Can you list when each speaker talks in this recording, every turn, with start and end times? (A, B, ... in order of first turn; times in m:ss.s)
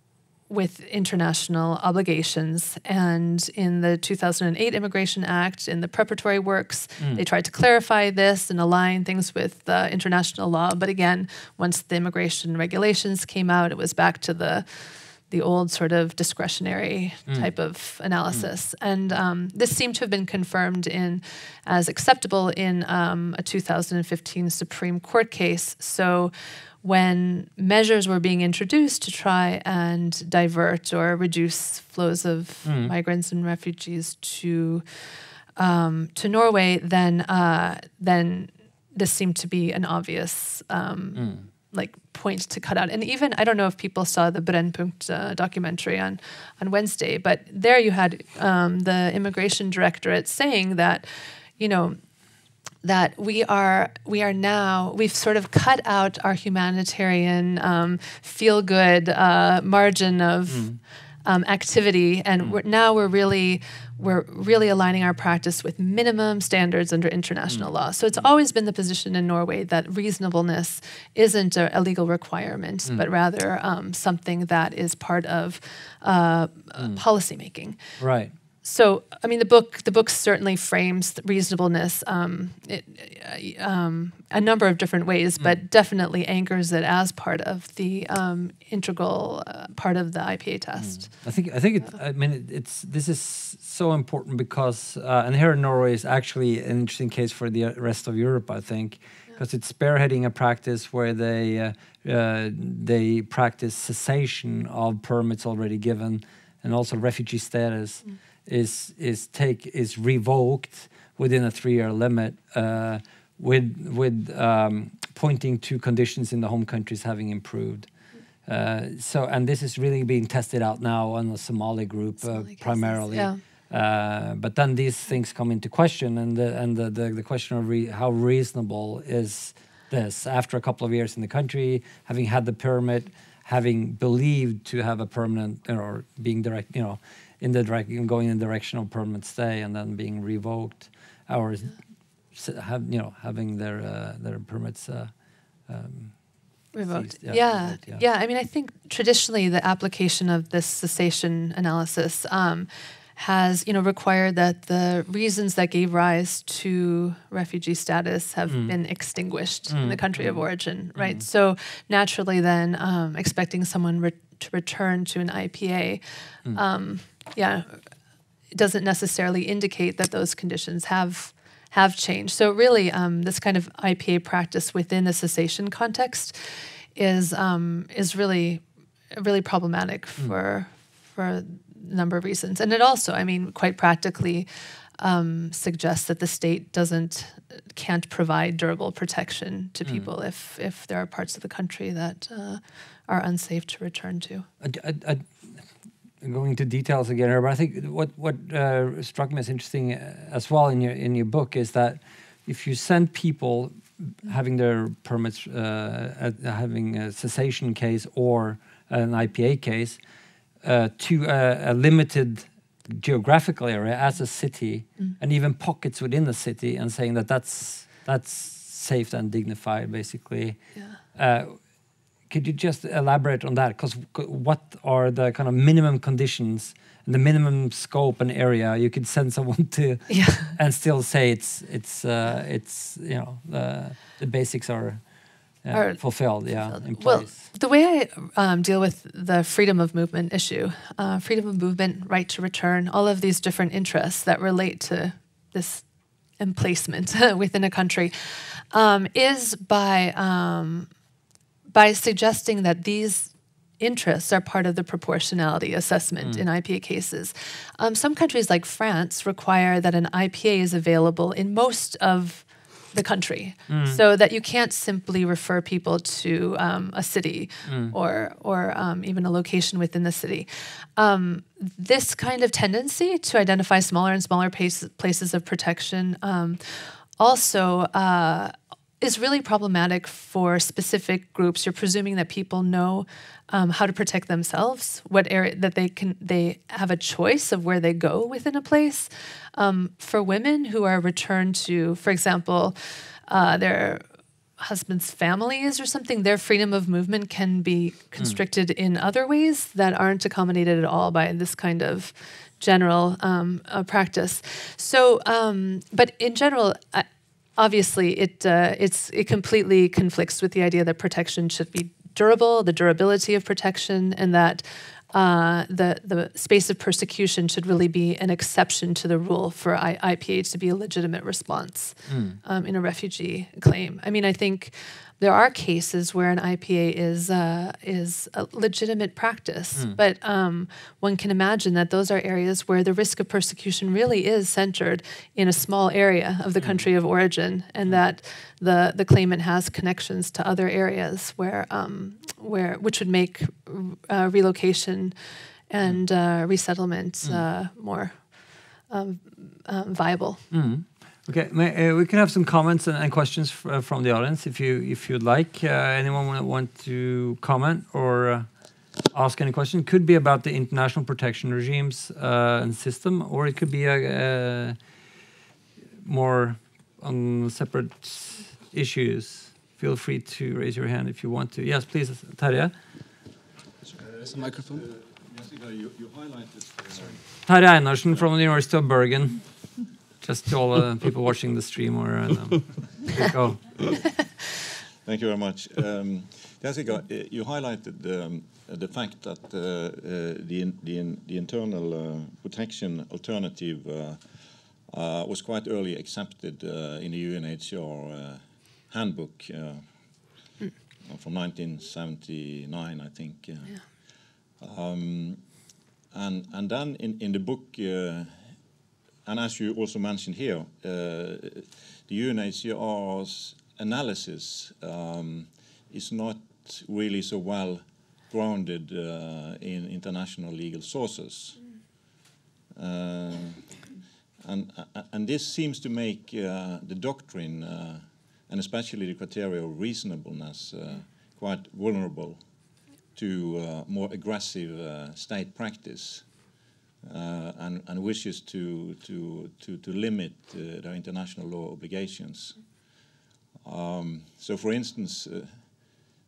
0:00.5-0:34.8 A
0:32.6-0:32.9 B
0:35.6-0:52.0 A
0:41.2-0:41.5 B
0:52.8-1:00.7 A
1:00.5-1:00.8 B
1:01.2-1:17.8 A
1:18.0-1:18.3 B
1:18.6-1:31.2 A
1:30.8-1:57.9 B
1:58.5-2:21.8 B
2:02.2-2:03.4 A
2:22.3-2:25.1 B
2:25.7-2:26.2 B
2:26.7-2:47.8 A
2:26.9-2:28.0 B
2:38.5-2:38.8 B
2:39.7-2:40.4 B
2:41.0-2:41.2 B
2:48.5-3:04.5 A
3:05.0-3:14.5 A
3:14.6-3:15.5 B
3:16.2-3:30.0 B
3:30.6-3:40.6 B
3:41.1-3:41.6 B
3:42.3-3:55.0 B
3:50.1-3:50.6 A
3:55.6-3:57.4 B
3:55.7-4:05.8 A
4:06.4-4:10.9 A
4:11.7-4:52.8 A
4:23.7-4:24.0 B
4:27.7-4:28.0 B
4:53.3-4:54.0 A
4:54.6-5:07.1 A
5:07.6-5:45.2 A
5:22.1-5:22.4 B
5:36.6-5:36.9 B
5:45.7-5:50.4 A
5:50.5-5:58.5 B
5:59.1-6:04.8 B
6:06.0-6:12.7 B
6:14.0-6:17.2 C
6:17.4-6:19.6 B
6:20.2-6:23.8 B
6:25.0-6:40.4 C
6:41.0-6:45.6 C
6:46.1-6:48.5 C
6:49.2-7:01.7 C
7:02.8-7:03.9 C
7:04.4-7:12.4 C
7:13.1-7:16.3 C
7:17.0-7:22.8 C
7:23.6-7:26.0 C